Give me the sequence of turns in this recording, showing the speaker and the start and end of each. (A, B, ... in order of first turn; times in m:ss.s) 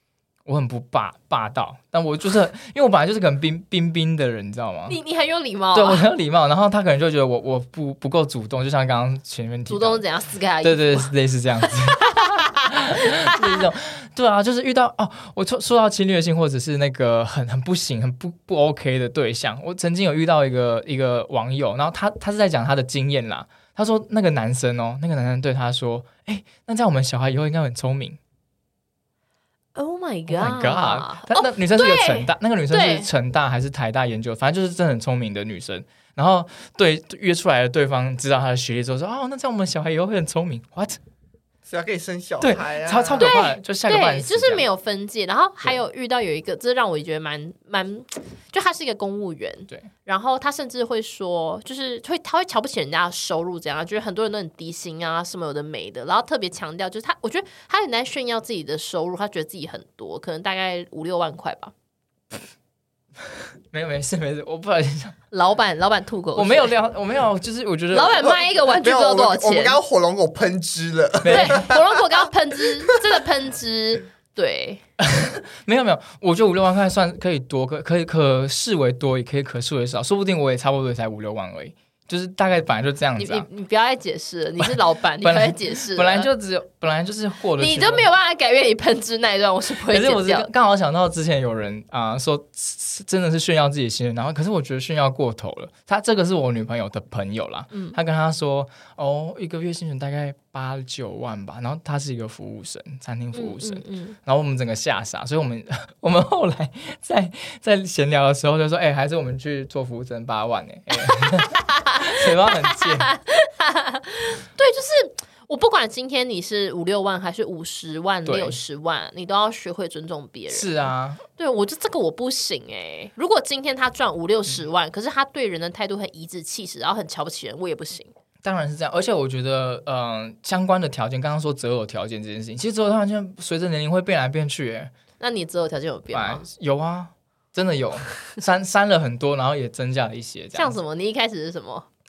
0:00.4-0:05.0 A
0:04.9-0:06.1 B
0:05.7-0:10.0 A
0:09.7-0:11.1 B
0:10.6-0:28.2 A
0:11.9-0:13.6 B
0:29.7-0:33.1 B
0:30.3-0:41.0 A
0:41.6-0:43.3 C
0:42.4-0:44.6 A
0:43.2-1:01.7 B
1:03.7-1:05.2 A
1:05.3-1:06.7 B
1:06.4-1:08.2 A
1:07.9-1:09.8 B
1:08.2-1:12.0 C
1:11.2-1:11.7 A
1:11.3-1:14.8 B
1:15.0-1:23.5 A
1:23.2-1:26.3 B
1:24.6-1:28.1 A
1:27.6-1:30.5 B
1:29.8-1:53.1 A
1:37.7-1:38.0 B
1:43.3-1:44.2 B
1:51.0-2:08.1 B
1:58.2-1:58.6 A
2:00.5-2:01.2 A
2:08.4-2:14.9 A
2:15.2-2:16.4 B
2:16.1-2:20.8 A
2:20.5-2:21.9 B